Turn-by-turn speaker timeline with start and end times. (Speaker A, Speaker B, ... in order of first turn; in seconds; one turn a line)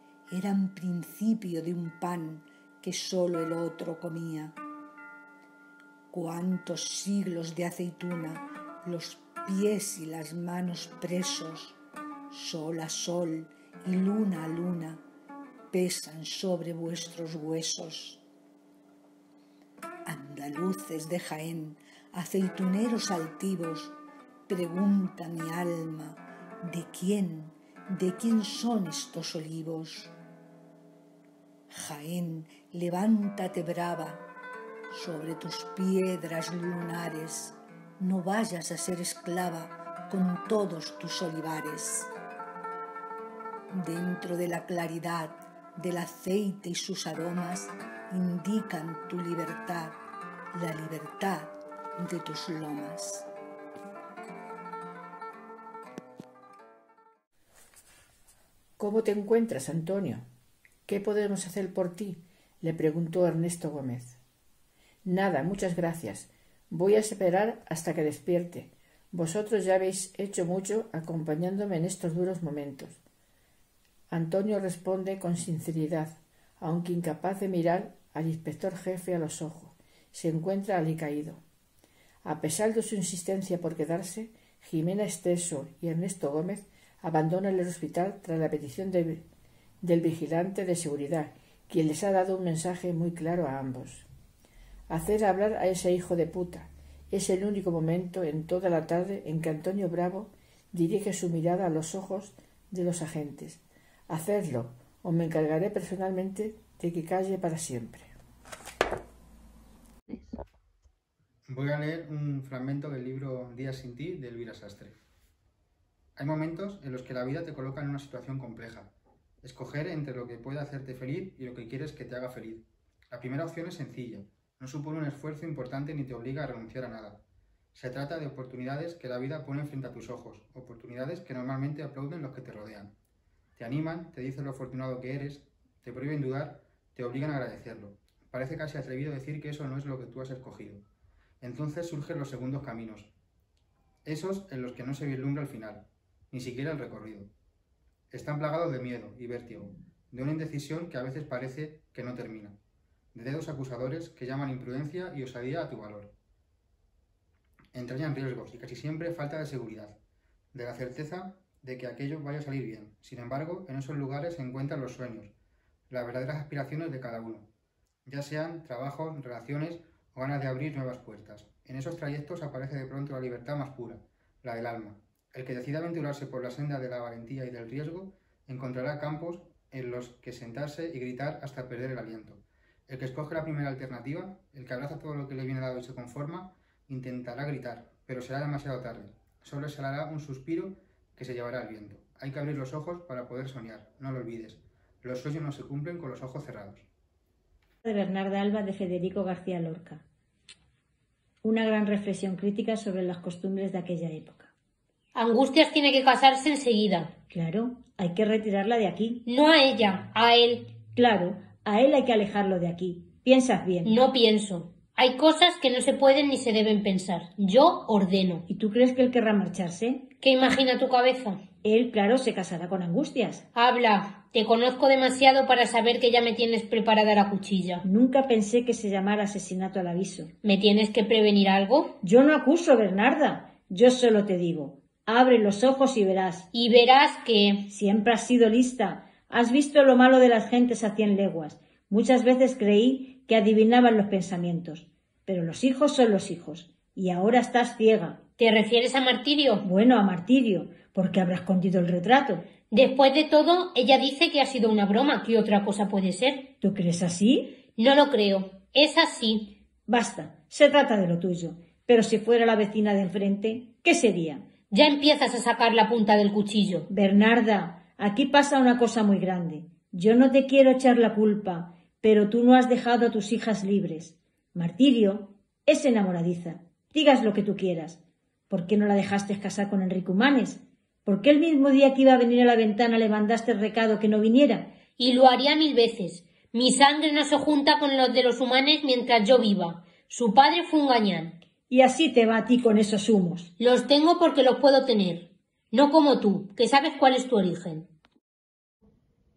Speaker A: 0.3-4.6
Speaker A: 6.1-11.8
Speaker A: 12.3-15.0
Speaker A: 15.7-18.2
Speaker A: 20.1-24.0
Speaker A: 24.5-30.1
Speaker A: 31.7-34.2
Speaker A: 34.9-42.1
Speaker A: 43.7-50.0
Speaker A: 50.5-53.3
Speaker B: 58.8-60.2
Speaker B: 60.9-64.2
Speaker B: 65.0-73.0
Speaker B: 74.1-81.4
Speaker B: 82.2-89.2
Speaker B: 89.8-94.1
Speaker B: 94.9-108.2
Speaker C: 111.5-115.0
Speaker C: 116.2-127.2
Speaker C: 127.8-132.9
Speaker C: 133.6-140.8
Speaker C: 141.4-143.1
Speaker C: 144.1-147.3
Speaker C: 148.1-152.6
Speaker C: 153.1-156.1
Speaker C: 157.7-160.0
Speaker C: 160.5-165.3
Speaker C: 165.9-167.5
Speaker C: 168.1-196.8
Speaker D: 197.8-200.0
Speaker D: 201.4-204.5
Speaker E: 205.2-207.1
Speaker D: 207.3-209.2
Speaker E: 209.3-210.8
Speaker D: 210.9-213.9
Speaker E: 213.8-218.4
Speaker D: 218.5-220.1
Speaker E: 220.2-221.4
Speaker D: 221.6-223.4
Speaker E: 223.5-227.8
Speaker D: 227.8-230.3
Speaker E: 230.4-232.0
Speaker D: 232.0-236.5
Speaker E: 236.5-237.7
Speaker D: 237.7-248.2
Speaker E: 248.4-249.7
Speaker D: 249.6-252.5
Speaker E: 252.7-256.5
Speaker D: 256.6-257.6
Speaker E: 257.8-259.6
Speaker D: 259.9-264.5
Speaker E: 264.7-266.9
Speaker D: 266.9-284.7
Speaker E: 285.0-291.4
Speaker D: 291.7-293.5
Speaker E: 293.6-297.9